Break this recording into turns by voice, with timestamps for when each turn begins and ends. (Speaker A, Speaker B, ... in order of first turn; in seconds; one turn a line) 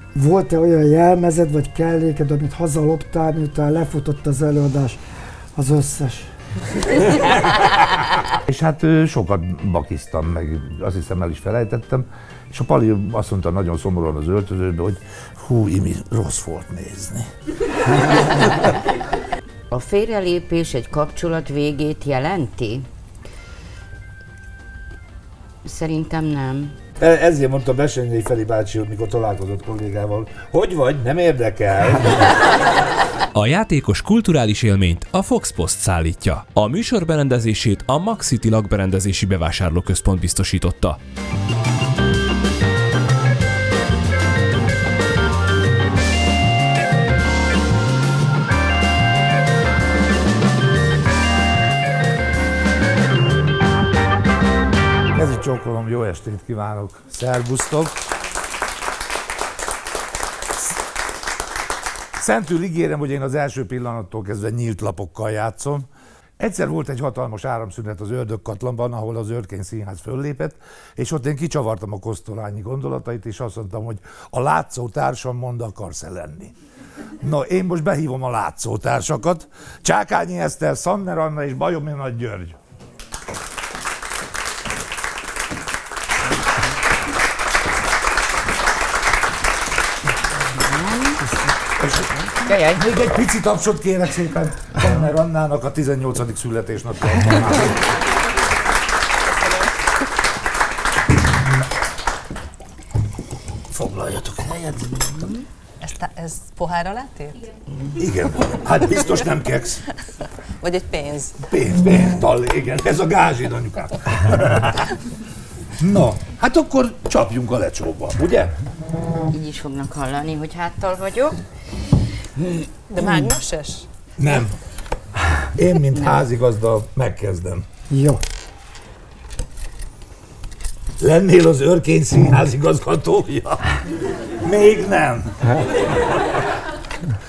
Speaker A: 0.1-5.0
Speaker A: 5.5-6.3
Speaker B: 7.2-17.3
Speaker B: 17.9-18.8
Speaker C: 19.7-22.9
Speaker C: 25.6-26.8
Speaker B: 27.0-32.4
Speaker D: 33.3-41.0
Speaker B: 55.1-58.0
Speaker B: 62.2-65.9
Speaker B: 66.4-76.5
Speaker B: 77.2-82.6
Speaker C: 90.5-91.3
Speaker B: 91.8-97.9
Speaker C: 92.2-93.1
Speaker B: 103.7-105.4
Speaker E: 105.8-107.5
Speaker B: 108.0-109.8
Speaker E: 110.6-111.4
Speaker B: 111.4-115.0
Speaker B: 115.8-118.5
Speaker C: 119.3-121.4
Speaker C: 122.4-122.7
Speaker E: 122.9-123.9
Speaker B: 124.2-124.5
Speaker B: 125.5-127.6
Speaker C: 125.9-126.2
Speaker A: 127.9-128.2
Speaker B: 131.0-133.9
Speaker B: 134.4-136.4